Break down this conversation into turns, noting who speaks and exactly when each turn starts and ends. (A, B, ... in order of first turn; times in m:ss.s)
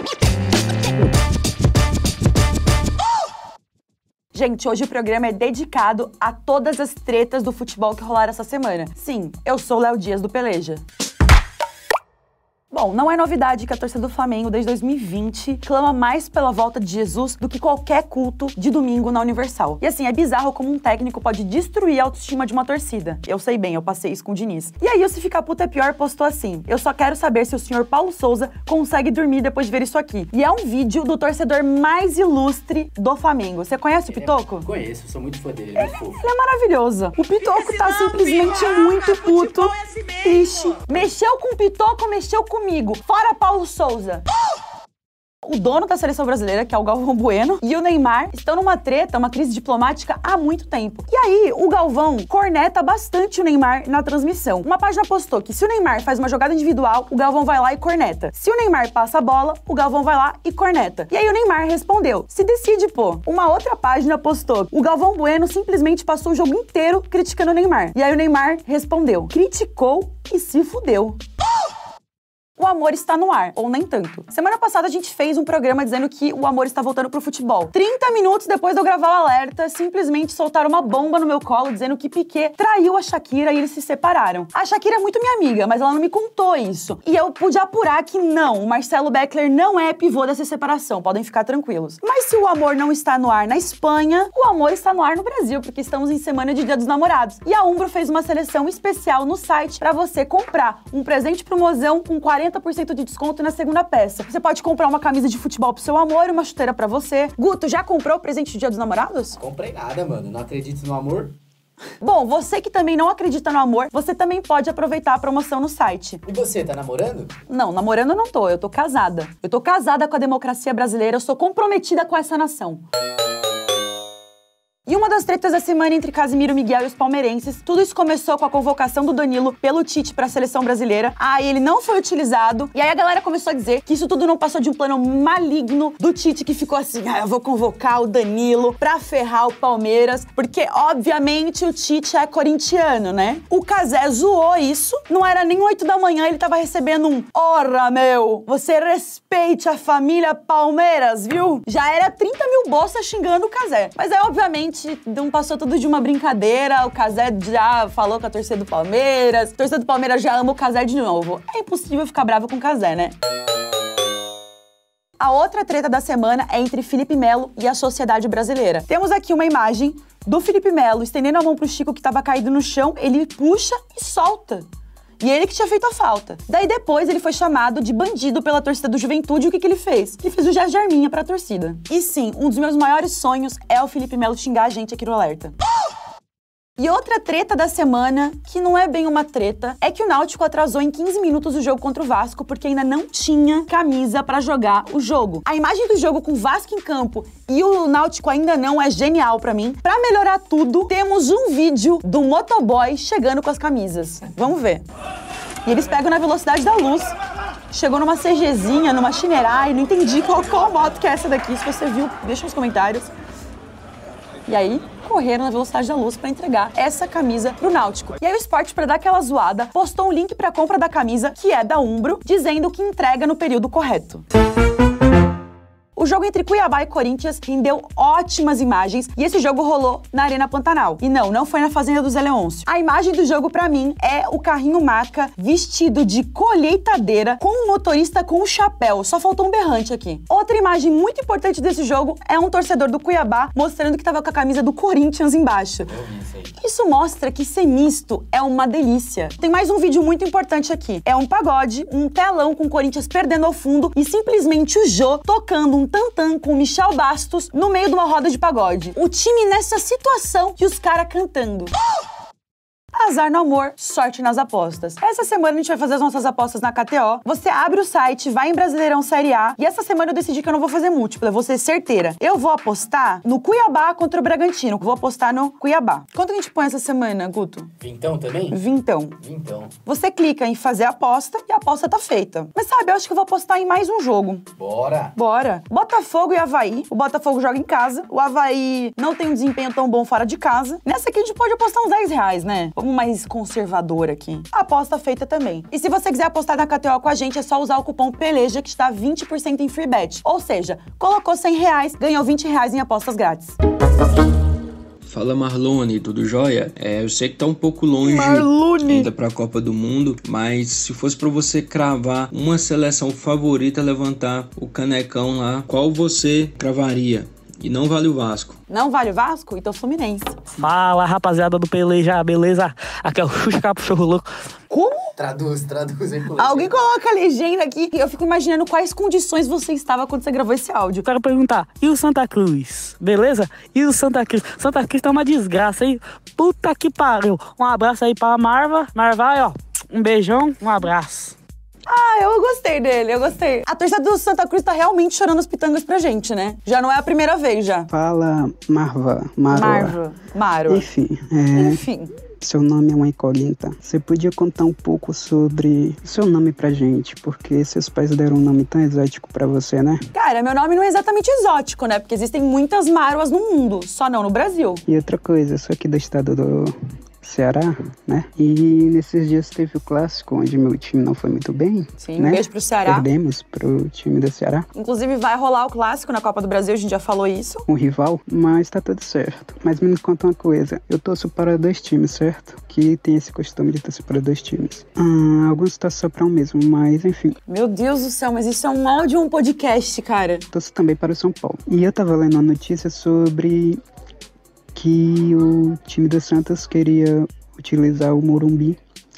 0:04.3-0:10.8 A
0:12.7-0:34.7 A
0:34.1-0:36.2 B
0:35.8-0:44.2 A
0:45.4-1:11.2 A
1:12.6-1:49.4 A
1:49.4-1:51.4 B
1:52.0-1:56.2 A
1:56.3-1:57.3 B
1:57.5-2:02.8 A
2:04.9-2:43.1 A
2:45.2-2:54.7 A
2:55.2-3:05.6 A
3:06.8-3:24.8 A
3:25.6-3:27.1 A
3:27.7-3:33.1 A
3:34.5-3:44.2 A
3:46.0-4:05.9 A
4:05.9-4:06.5 B
4:06.6-4:21.7 A
4:23.0-4:37.7 A
4:37.8-4:38.6 B
4:38.5-4:39.2 A
4:39.2-4:39.7 B
4:39.8-4:44.5 A
4:44.6-4:45.1 B
4:45.2-5:03.6 A
5:05.0-5:18.6 C
5:08.0-5:09.1 A
5:18.7-5:20.4 A
5:20.6-5:24.3 D
5:24.7-5:25.1 A
5:25.2-5:26.8 B
5:26.4-5:31.1 A
5:31.0-5:41.3 D
5:41.9-5:47.9 A
5:47.9-5:50.0 E
5:49.5-5:50.9 A
5:50.7-5:51.8 E
5:51.5-5:52.1 A
5:52.4-6:00.0 E
6:00.1-6:04.8 A
6:04.9-6:14.7 E
6:12.0-6:13.1 A
6:14.7-6:17.7 A
6:17.7-6:27.4 E
6:27.5-6:30.5 A
6:30.5-6:33.8 E
6:34.7-6:38.8 E